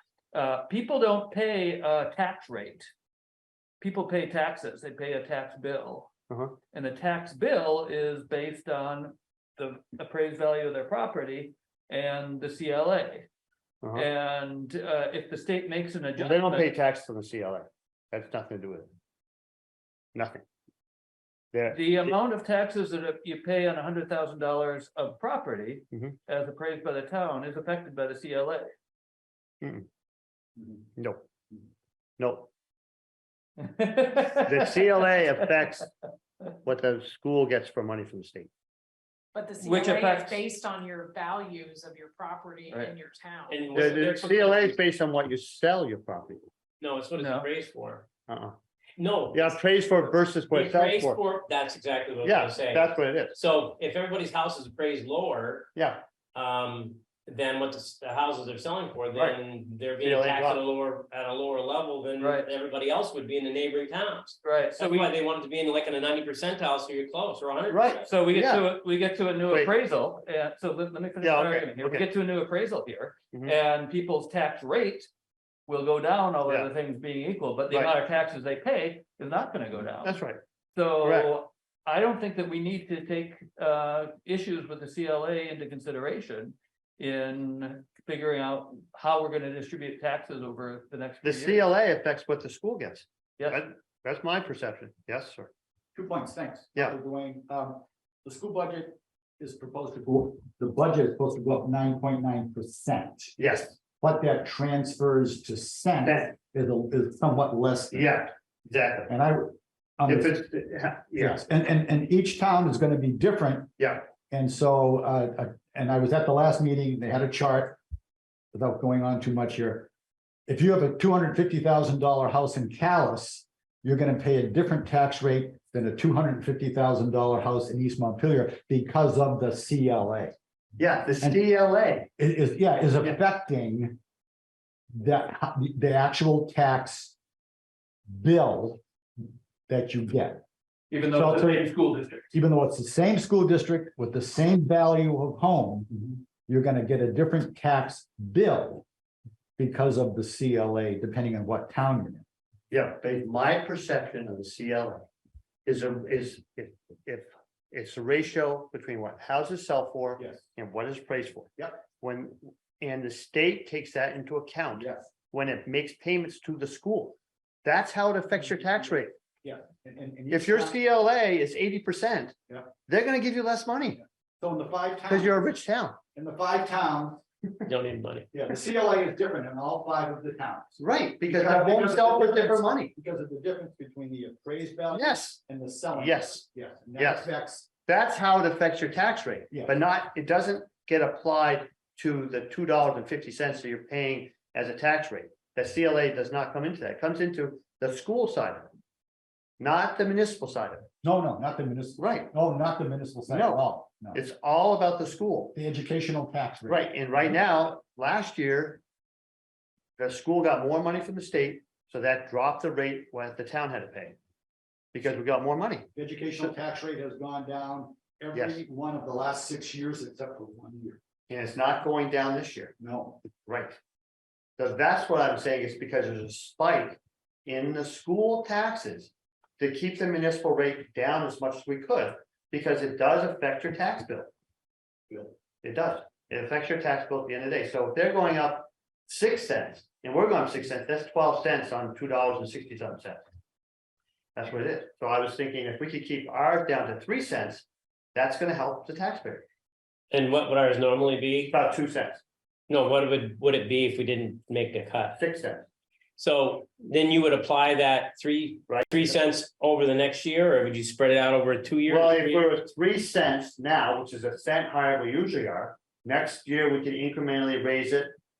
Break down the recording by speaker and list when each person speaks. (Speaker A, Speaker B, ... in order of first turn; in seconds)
Speaker A: 0.3-2.9, 3.8-6.1, 6.7-13.3, 13.9-16.7, 21.7-28.7, 33.6-35.3, 39.6-40.4, 47.2-47.5, 62.2-62.5, 64.4-65.1, 68.0-75.1, 75.7-80.2, 80.8-91.7, 140.9-142.2
Speaker B: 6.3-6.6, 16.2-18.9, 20.1-20.4, 21.5-22.1, 31.0-31.2, 32.2-32.5, 34.5-35.9, 36.6-38.5, 43.8-46.4, 48.3-48.6, 49.3-51.2, 52.2-53.4, 55.7-56.0, 60.0-60.6, 67.7-68.7, 71.2-72.1, 80.0-80.4, 81.0-81.3, 91.2-95.5, 103.4-103.8, 107.9-109.1, 110.1-111.4, 113.8-114.1, 130.8-132.1, 152.7-155.1, 155.7-169.1, 170.3-172.3, 172.9-174.0, 175.1-176.0, 180.8-182.9, 184.9-185.4, 185.9-186.4, 187.0-187.3, 187.9-198.7, 199.6-200.9, 202.0-202.3, 203.3-205.5, 206.7-208.8, 210.0-214.2, 214.9-215.9, 218.3-218.6, 221.3-222.7, 223.4-223.8, 224.6-234.3, 235.1-243.2, 244.3-249.4, 251.5-252.2, 255.2-255.7, 261.9-268.1
Speaker C: 39.3-43.8
Speaker D: 43.5-44.8, 46.8-48.1, 49.0-55.7, 56.3-68.0, 177.7-178.3, 250.1-251.6, 252.7-255.2, 256.2-262.5
Speaker E: 96.0-108.2, 109.1-110.5, 111.1-117.8, 118.5-119.9, 120.5-130.3, 132.2-134.0, 134.9-137.2, 138.1-138.8, 139.7-140.4, 141.1-141.7, 142.3-148.8, 149.6-152.2, 160.2-160.5, 164.8-165.1, 168.7-170.8, 174.0-175.4, 176.2-177.2, 178.3-187.7, 189.5-189.8, 201.0-204.2, 205.5-207.4, 215.9-221.0, 222.8-223.2